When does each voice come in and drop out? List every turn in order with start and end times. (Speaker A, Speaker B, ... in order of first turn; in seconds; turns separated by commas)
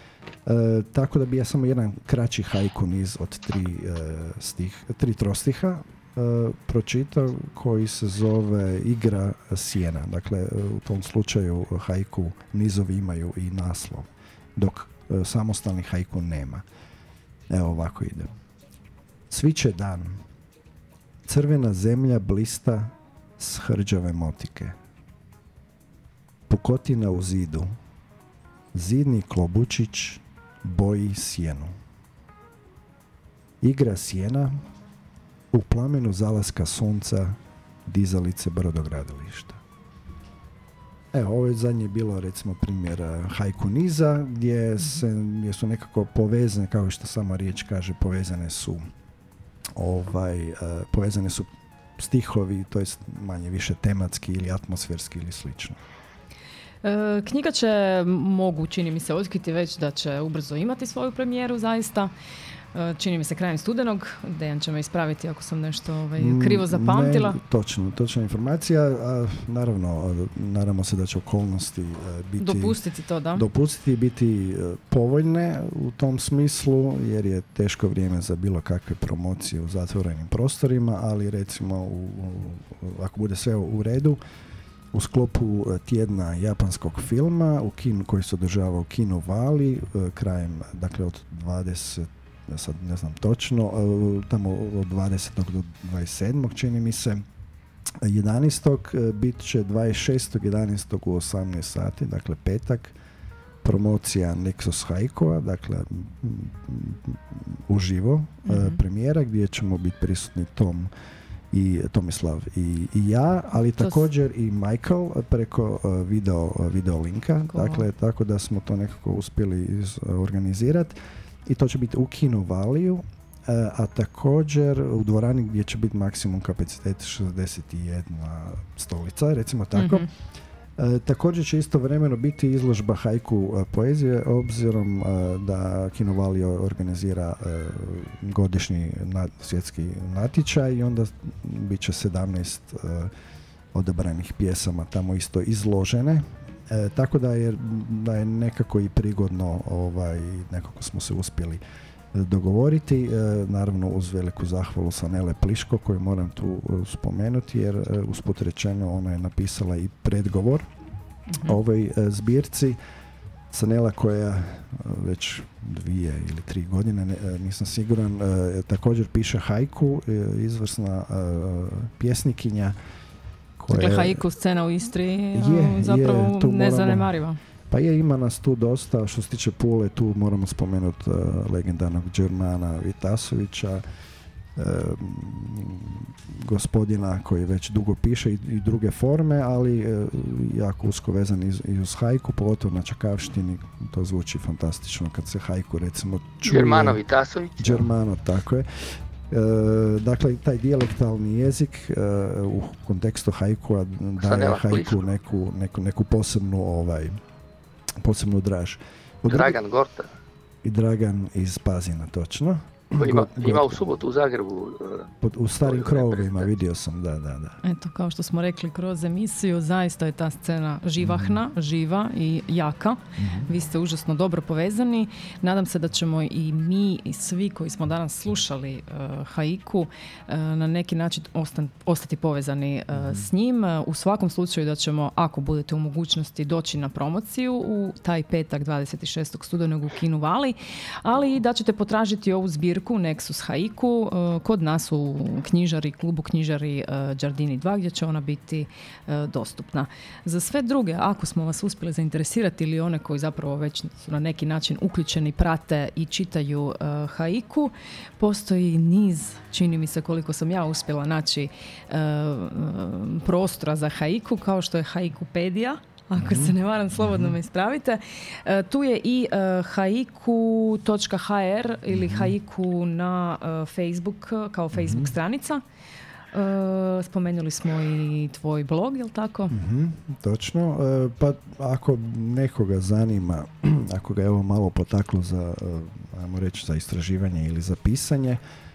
Speaker A: 0.5-16.6, Speaker A: 17.5-18.3, Speaker A: 19.3-20.2, Speaker A: 21.2-24.8, Speaker A: 26.5-27.7, Speaker A: 28.7-31.7, Speaker A: 33.6-34.6, Speaker A: 35.5-39.6, Speaker A: 41.1-48.8, Speaker A: 49.7-55.8, Speaker B: 56.8-62.1, Speaker B: 62.7-67.4, Speaker A: 66.2-72.8, Speaker B: 72.4-73.5, Speaker A: 73.3-84.2, Speaker A: 84.9-97.2, Speaker A: 98.0-103.0, Speaker A: 103.6-110.9, Speaker B: 108.5-108.8, Speaker A: 111.5-130.1, Speaker B: 113.8-114.0, Speaker B: 117.5-117.9, Speaker B: 129.7-130.1, Speaker A: 130.8-143.1, Speaker A: 143.7-151.6, Speaker A: 152.1-160.7, Speaker B: 161.3-161.6, Speaker A: 161.4-162.8, Speaker A: 163.5-172.8, Speaker A: 173.6-174.2, Speaker B: 173.7-177.4, Speaker A: 175.3-177.2, Speaker A: 177.7-183.8, Speaker A: 184.6-197.0, Speaker C: 196.4-197.9, Speaker A: 197.6-207.2, Speaker C: 204.2-205.0, Speaker A: 208.0-209.6, Speaker C: 209.3-210.1, Speaker A: 210.6-213.8, Speaker C: 213.0-215.1, Speaker A: 215.2-217.6, Speaker C: 215.6-216.5, Speaker B: 217.6-275.6, Speaker A: 221.0-221.4, Speaker A: 223.2-223.5, Speaker A: 232.9-233.3, Speaker A: 266.2-267.4, Speaker A: 271.9-272.3, Speaker A: 274.7-275.1, Speaker B: 276.3-279.6, Speaker A: 279.5-288.4